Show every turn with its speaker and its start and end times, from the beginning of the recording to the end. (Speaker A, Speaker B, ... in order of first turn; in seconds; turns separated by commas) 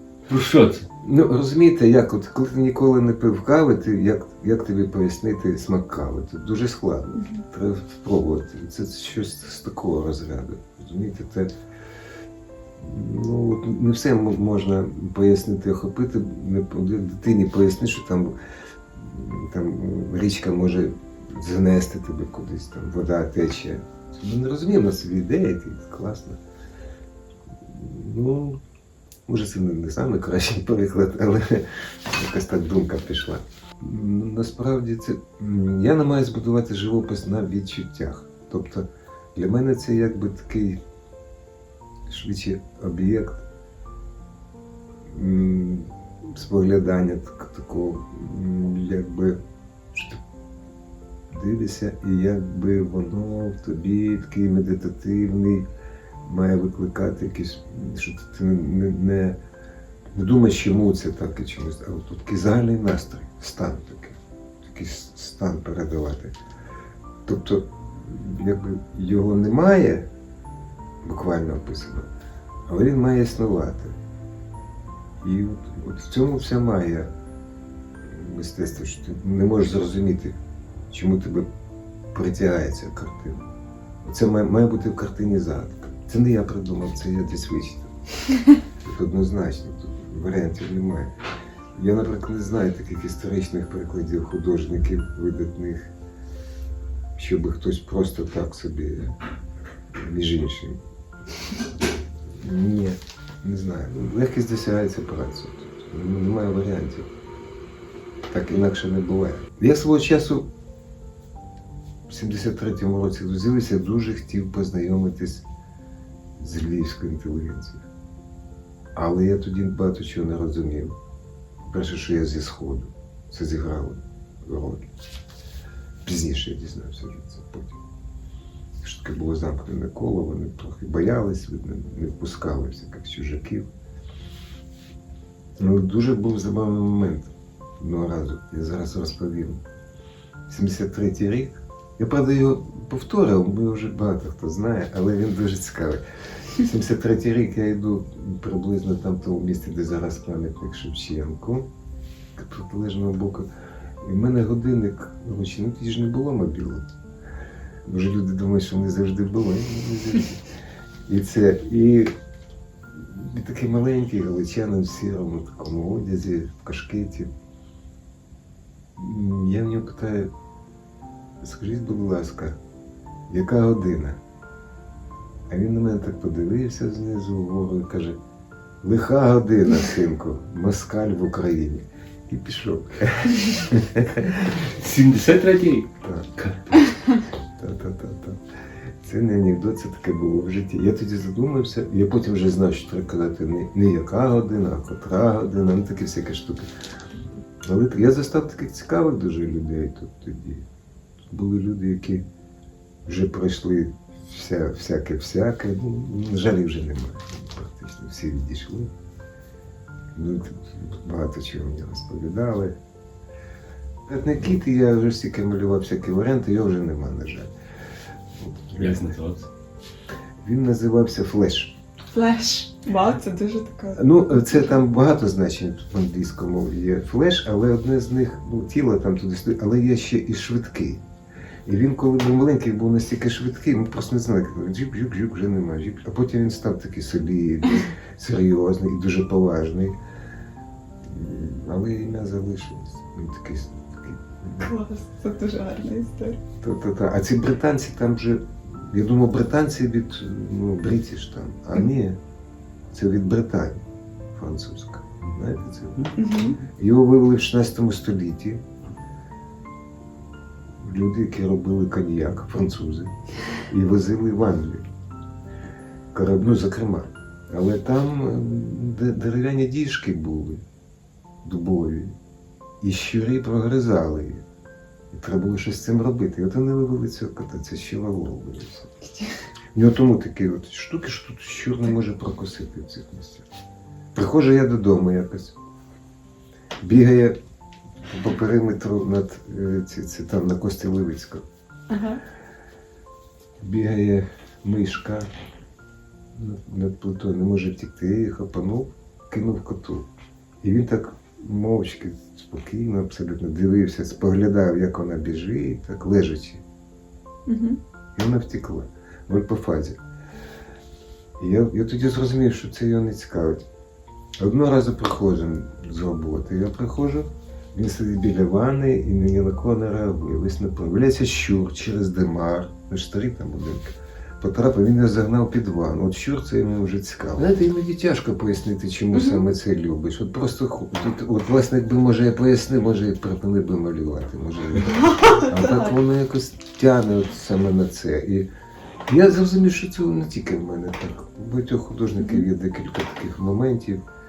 Speaker A: 0.3-0.9, Speaker B: 1.0-11.5, Speaker B: 12.8-18.3, Speaker B: 19.0-26.4, Speaker B: 27.7-28.6, Speaker B: 29.3-40.8, Speaker B: 42.1-43.4, Speaker B: 45.1-49.4, Speaker B: 49.9-50.2, Speaker B: 51.3-55.7, Speaker B: 56.2-59.4, Speaker B: 60.1-66.3, Speaker B: 67.3-70.1, Speaker B: 71.0-72.1, Speaker B: 72.7-74.0, Speaker B: 75.2-77.1, Speaker B: 78.1-80.4, Speaker B: 80.9-81.5, Speaker B: 82.1-83.5, Speaker B: 84.0-87.9, Speaker B: 88.8-91.1, Speaker B: 91.8-95.9, Speaker B: 97.2-99.2, Speaker B: 100.0-100.8, Speaker B: 102.4-107.1, Speaker B: 108.3-110.5, Speaker B: 112.1-115.5, Speaker B: 116.4-117.9, Speaker B: 119.0-121.0, Speaker B: 121.7-124.9, Speaker B: 126.0-127.8, Speaker B: 128.8-133.7, Speaker B: 135.6-139.6, Speaker B: 140.5-146.0, Speaker B: 146.6-151.7, Speaker B: 152.3-153.5, Speaker B: 154.0-156.9, Speaker B: 157.8-160.4, Speaker B: 161.1-162.1, Speaker B: 162.9-167.3, Speaker B: 169.0-170.3, Speaker B: 171.4-172.6, Speaker B: 173.3-174.2, Speaker B: 175.5-178.2, Speaker B: 178.8-184.5, Speaker A: 184.4-186.9, Speaker B: 186.0-186.3, Speaker B: 187.6-188.4, Speaker B: 189.0-196.7, Speaker B: 197.6-200.7, Speaker B: 201.3-202.3, Speaker B: 203.1-208.9, Speaker B: 210.2-212.8, Speaker B: 214.1-217.5, Speaker B: 218.4-219.2, Speaker A: 218.8-219.5, Speaker B: 220.4-221.8, Speaker C: 222.1-224.6, Speaker B: 223.9-231.0, Speaker B: 231.7-240.0, Speaker B: 241.1-244.7, Speaker C: 244.6-246.4, Speaker B: 246.6-252.2, Speaker B: 252.9-253.8, Speaker B: 254.3-258.6, Speaker C: 256.2-256.6, Speaker B: 260.8-264.8, Speaker B: 266.1-270.6, Speaker B: 271.4-272.2, Speaker B: 272.8-274.4, Speaker B: 275.1-278.9, Speaker B: 279.7-283.5, Speaker B: 284.1-285.6, Speaker B: 286.8-287.4, Speaker B: 288.1-291.4, Speaker C: 291.9-292.2, Speaker B: 293.6-295.3, Speaker B: 296.3-300.1, Speaker B: 300.6-306.6, Speaker C: 307.5-307.8, Speaker B: 308.2-310.0, Speaker B: 311.4-313.6, Speaker B: 314.4-338.5, Speaker C: 329.1-329.4, Speaker C: 335.0-335.9, Speaker B: 339.1-344.0, Speaker C: 342.2-342.5